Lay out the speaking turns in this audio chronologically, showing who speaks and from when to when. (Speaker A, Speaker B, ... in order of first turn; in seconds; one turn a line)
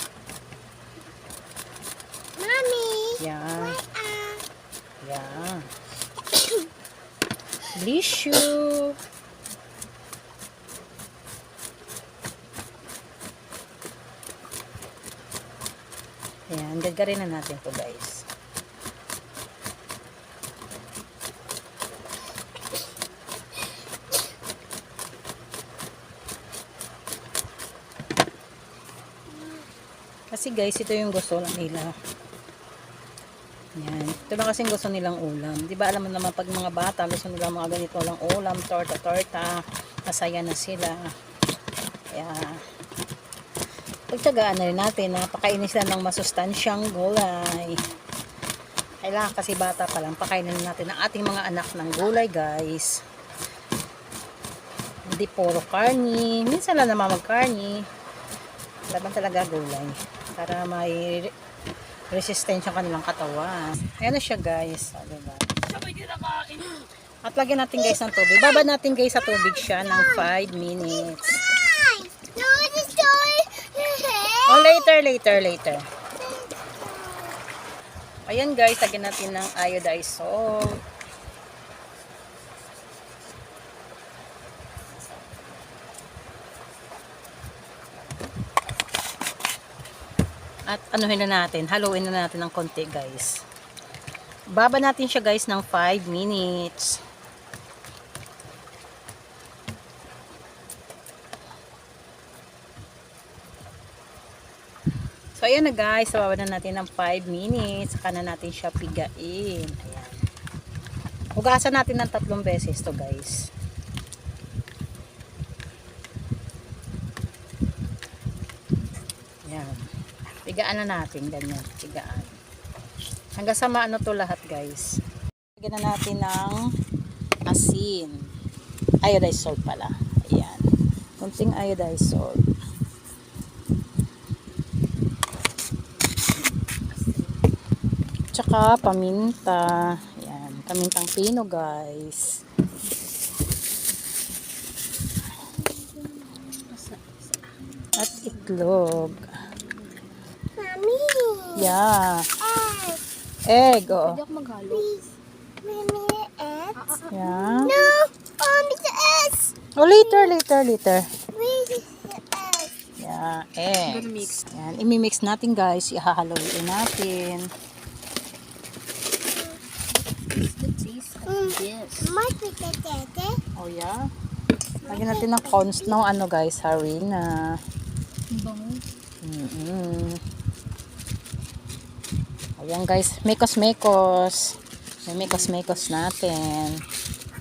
Speaker A: 2.4-3.2
Speaker B: 3.2-3.8
Speaker A: 3.8-4.4
Speaker B: 5.0-5.6
Speaker B: 7.7-8.9
Speaker B: 16.5-18.2
Speaker B: 30.3-31.9
Speaker B: 33.8-41.1
Speaker B: 42.1-42.6
Speaker B: 44.1-47.8
Speaker B: 49.0-53.0
Speaker B: 55.0-57.9
Speaker B: 58.9-61.3
Speaker B: 62.1-71.4
Speaker A: 69.8-70.3
Speaker A: 71.0-74.9
Speaker B: 74.4-75.8
Speaker A: 76.2-77.4
Speaker B: 78.3-80.8
Speaker B: 90.7-93.4
Speaker B: 94.5-97.0
Speaker B: 105.4-110.2
Speaker B: 111.3-113.4
Speaker B: 119.5-119.8
Speaker B: 120.4-122.3
Speaker B: 123.3-125.0
Speaker B: 125.6-126.6
Speaker B: 127.5-128.2
Speaker B: 129.0-130.6
Speaker B: 131.2-132.3
Speaker C: 136.9-137.3
Speaker B: 138.3-142.4
Speaker C: 145.6-148.9
Speaker B: 147.9-149.3
Speaker C: 149.6-150.0
Speaker A: 150.6-151.7
Speaker B: 151.5-152.3
Speaker A: 152.4-153.0
Speaker B: 153.5-154.2
Speaker C: 153.9-154.9
Speaker A: 154.7-155.1
Speaker A: 155.6-160.3
Speaker C: 156.7-157.9
Speaker B: 157.1-157.8
Speaker B: 159.8-161.1
Speaker A: 161.3-162.7
Speaker B: 163.0-167.5
Speaker C: 163.8-164.4
Speaker C: 170.3-172.2
Speaker A: 171.3-173.4
Speaker B: 173.6-174.1
Speaker A: 174.8-175.9
Speaker B: 174.9-177.6
Speaker C: 178.3-178.8
Speaker B: 179.2-180.2
Speaker B: 182.6-186.8
Speaker C: 185.2-185.5